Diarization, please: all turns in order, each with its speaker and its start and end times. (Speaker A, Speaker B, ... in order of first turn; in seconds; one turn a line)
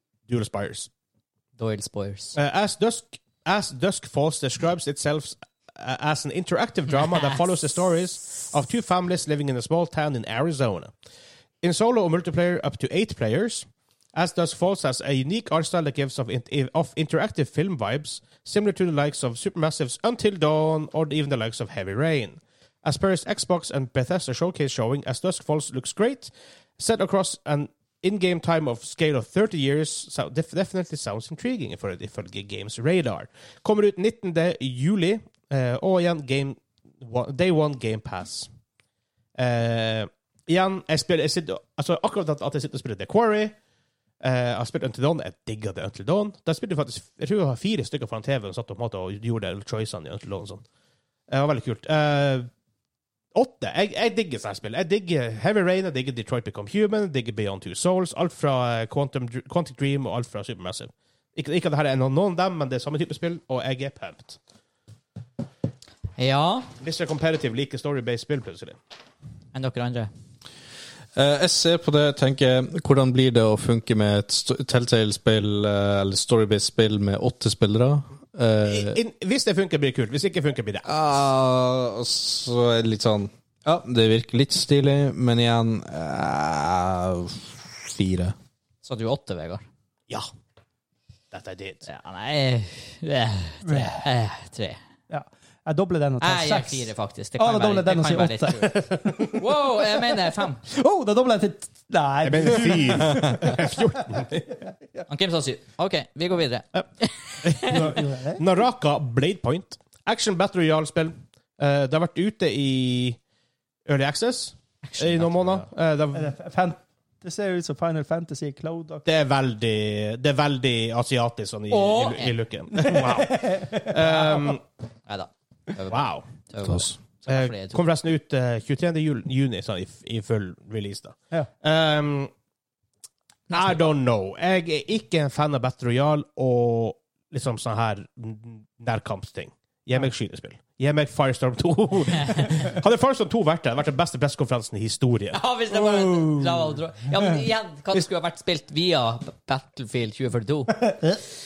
Speaker A: 0.3-0.9
Speaker B: 1.6-2.4
Speaker A: 2.4-10.9
Speaker B: 7.0-7.4
Speaker A: 11.6-38.5
Speaker A: 39.4-43.5
Speaker A: 44.2-50.6
Speaker A: 51.3-52.5
Speaker A: 53.3-64.4
Speaker B: 66.2-66.7
Speaker A: 66.8-68.8
Speaker B: 69.5-70.1
Speaker C: 71.2-79.0
Speaker A: 78.7-80.9
Speaker C: 80.9-88.3
Speaker B: 88.8-89.7
Speaker A: 91.3-91.9
Speaker B: 91.9-94.8
Speaker D: 93.6-94.0
Speaker D: 95.1-99.4
Speaker B: 96.2-100.6
Speaker D: 100.7-105.0
Speaker A: 102.2-104.4
Speaker B: 105.1-107.9
Speaker A: 107.4-113.2
Speaker D: 107.6-108.4
Speaker A: 113.9-116.3
Speaker B: 114.8-115.7
Speaker D: 116.1-119.0
Speaker A: 119.0-124.6
Speaker B: 121.7-122.4
Speaker D: 122.8-124.6
Speaker B: 125.1-127.8
Speaker A: 125.9-126.3
Speaker C: 126.6-126.9
Speaker A: 127.3-132.3
Speaker B: 133.5-133.9
Speaker A: 133.5-145.4
Speaker B: 145.3-151.0
Speaker D: 145.8-147.2